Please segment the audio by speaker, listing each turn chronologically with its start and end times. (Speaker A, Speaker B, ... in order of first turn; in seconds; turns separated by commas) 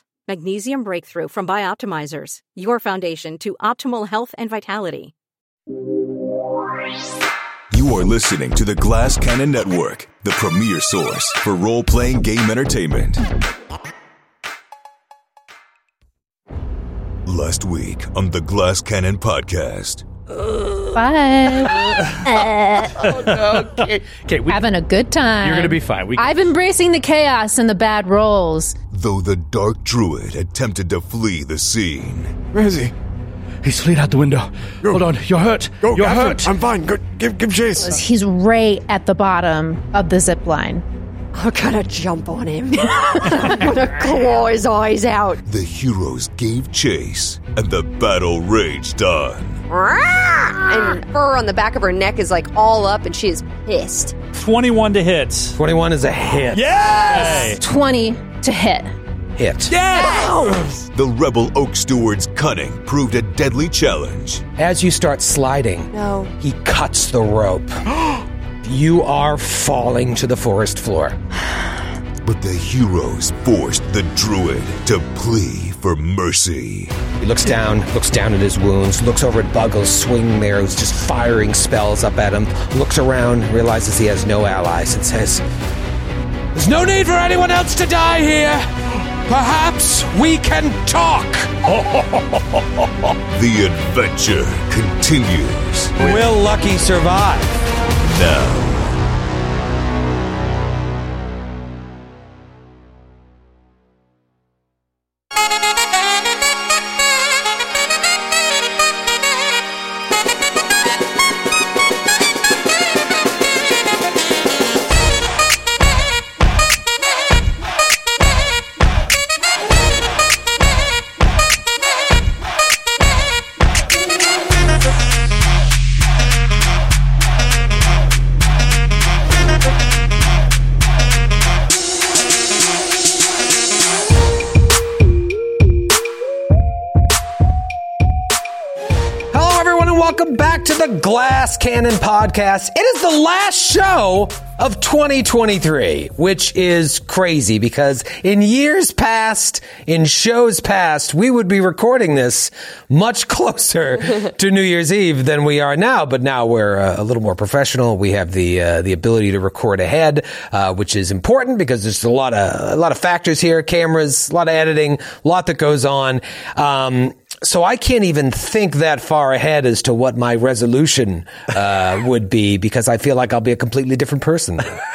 Speaker A: 0.3-5.1, Speaker B: 7.7-13.2, Speaker B: 17.3-20.1, Speaker C: 20.9-22.9, Speaker D: 23.0-23.6, Speaker E: 23.0-24.6, Speaker C: 24.5-28.8, Speaker E: 25.4-26.4, Speaker B: 28.9-32.5, Speaker F: 32.5-32.9, Speaker E: 33.6-36.6, Speaker F: 35.8-38.0, Speaker C: 37.8-40.8, Speaker G: 41.3-45.4, Speaker B: 45.5-49.6, Speaker G: 49.7-54.2, Speaker D: 54.3-55.6, Speaker H: 55.6-57.6, Speaker D: 57.0-57.6, Speaker C: 57.5-58.9, Speaker H: 59.4-59.8, Speaker D: 59.7-60.1, Speaker G: 59.9-60.6, Speaker B: 60.9-64.5, Speaker H: 64.6-67.7, Speaker G: 65.9-66.3, Speaker H: 68.6-71.2, Speaker B: 72.2-77.0, Speaker H: 77.2-85.4, Speaker H: 86.5-88.7, Speaker H: 89.3-92.0, Speaker B: 93.3-95.9, Speaker H: 96.0-97.6, Speaker B: 98.0-99.0, Speaker H: 139.3-174.8